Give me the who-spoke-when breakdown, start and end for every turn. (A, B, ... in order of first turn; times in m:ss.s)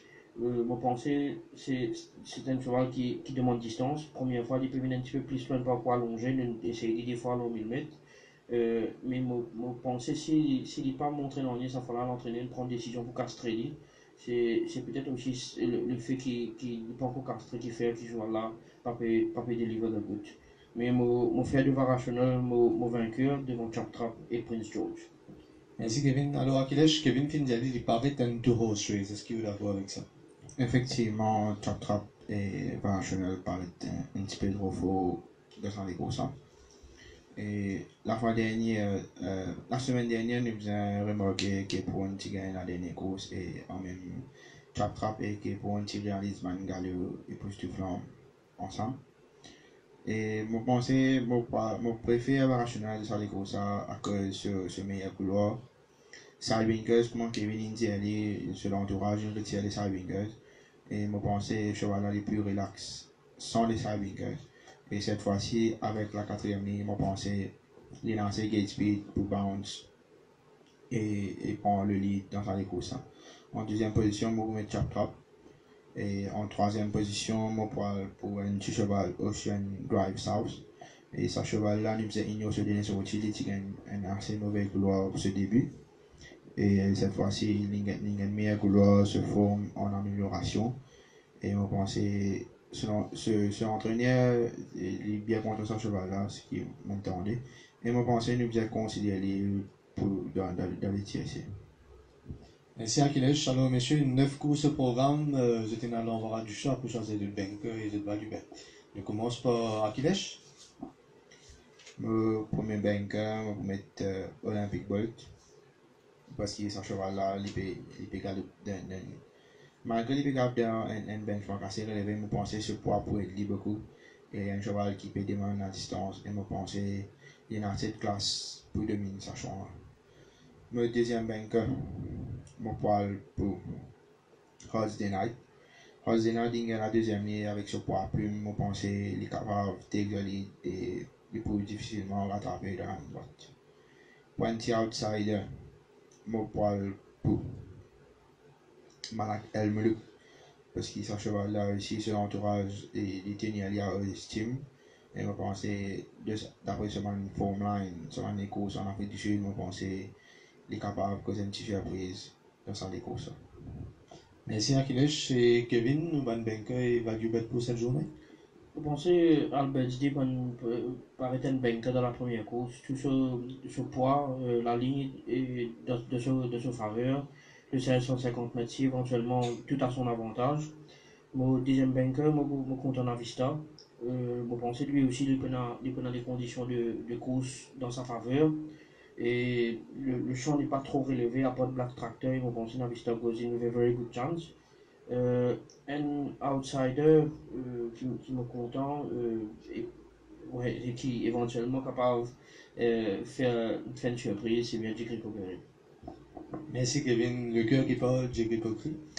0:00.4-0:08.0 A
0:08.5-0:25.1 A
0:25.8-0:30.1 B
0:30.6-0:36.3 C
0:37.4-0:49.0 C
0:50.0-0:55.6 C
0:56.4-1:00.4 C
1:00.9-1:09.9 C
1:10.9-1:15.2 C
1:16.0-1:25.7 C
1:26.6-1:30.8 C
1:31.4-1:41.5 C
1:42.8-1:50.4 B
1:52.0-1:55.3 C
1:56.3-1:59.2 C
1:59.8-2:09.8 C
2:10.7-2:13.9 C
2:14.7-2:15.4 C
2:16.0-2:23.5 C
2:24.4-2:25.6 C
2:26.3-2:27.7 C
2:29.1-2:30.0 C
2:30.7-2:40.1 C
2:40.7-2:43.4 C
2:44.5-2:48.1 B
2:48.7-3:00.7 A
3:01.3-3:14.5 A
3:15.1-3:19.9 A
3:20.4-3:25.6 A
3:26.7-3:29.0 B